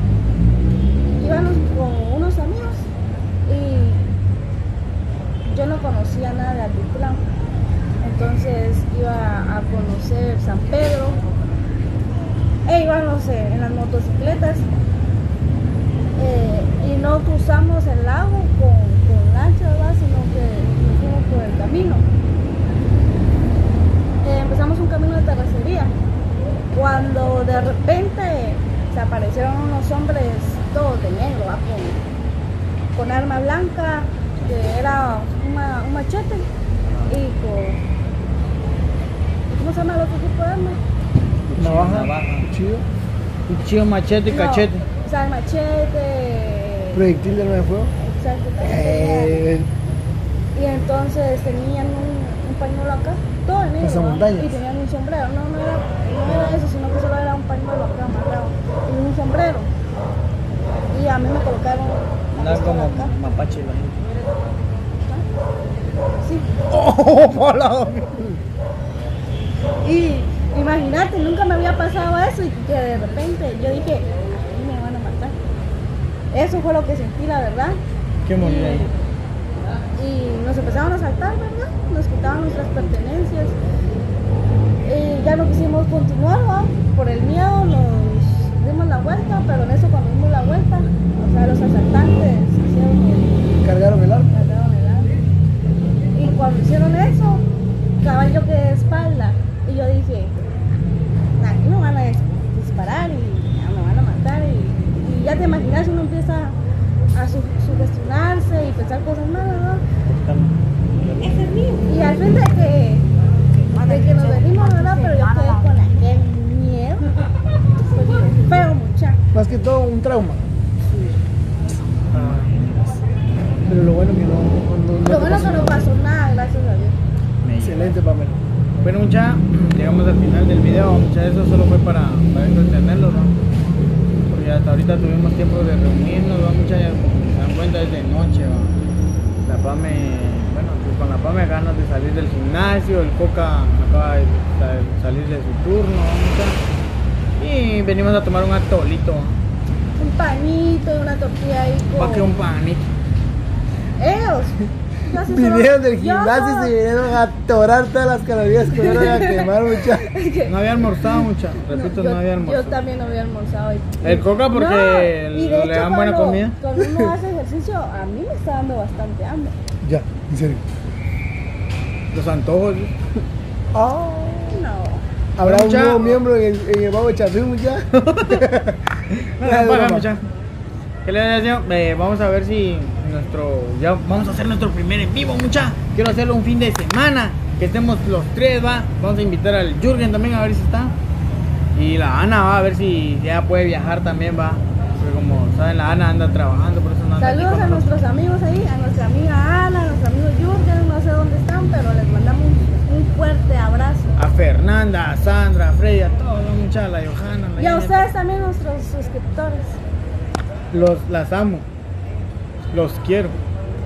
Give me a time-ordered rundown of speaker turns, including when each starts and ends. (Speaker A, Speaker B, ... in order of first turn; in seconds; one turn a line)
Speaker A: 1.2-2.9
Speaker A: 3.5-4.0
Speaker A: 5.4-7.2
Speaker A: 8.0-11.2
Speaker A: 12.7-14.7
Speaker A: 16.1-22.1
Speaker A: 24.2-25.9
Speaker A: 26.7-32.0
Speaker A: 32.9-36.5
Speaker B: 34.4-34.8
Speaker B: 36.9-37.1
Speaker A: 37.1-37.8
Speaker A: 39.5-40.8
Speaker B: 41.5-42.5
Speaker C: 41.6-42.8
Speaker B: 43.5-44.8
Speaker A: 44.3-47.0
Speaker C: 46.9-47.9
Speaker A: 48.0-49.4
Speaker C: 48.6-49.7
Speaker A: 50.5-59.7
Speaker C: 53.8-54.6
Speaker B: 56.3-56.6
Speaker A: 60.9-63.1
Speaker B: 62.3-64.0
Speaker A: 66.2-66.5
Speaker B: 66.7-68.2
Speaker A: 69.8-75.3
Speaker A: 76.3-77.8
Speaker B: 78.2-78.9
Speaker A: 78.4-78.9
Speaker A: 80.0-83.6
Speaker A: 84.8-93.4
Speaker C: 93.6-94.3
Speaker A: 94.3-95.2
Speaker A: 96.1-97.4
Speaker A: 98.0-100.3
Speaker A: 101.4-106.6
Speaker A: 107.1-109.8
Speaker B: 110.0-111.7
Speaker A: 111.8-113.0
Speaker A: 113.8-117.1
Speaker A: 117.8-119.2
Speaker C: 119.3-120.4
Speaker B: 122.0-123.0
Speaker C: 122.1-122.5
Speaker C: 123.7-125.9
Speaker A: 125.0-127.0
Speaker B: 127.4-127.9
Speaker C: 127.6-128.4
Speaker B: 128.8-133.3
Speaker B: 134.3-138.7
Speaker B: 139.4-146.6
Speaker B: 147.4-149.4
Speaker A: 150.0-152.3
Speaker B: 151.9-152.9
Speaker A: 154.0-156.7
Speaker C: 155.2-160.1
Speaker A: 158.7-169.5
Speaker B: 160.4-162.8
Speaker B: 164.0-166.6
Speaker C: 166.8-167.1
Speaker C: 169.8-170.6
Speaker B: 172.1-172.9
Speaker C: 173.7-174.7
Speaker A: 174.5-175.1
Speaker C: 175.3-180.1
Speaker B: 175.4-176.2
Speaker B: 179.1-180.2
Speaker B: 181.0-190.9
Speaker B: 191.7-197.9
Speaker A: 197.2-204.1
Speaker B: 204.2-208.1
Speaker A: 207.6-209.8
Speaker B: 210.7-211.7
Speaker B: 212.7-213.3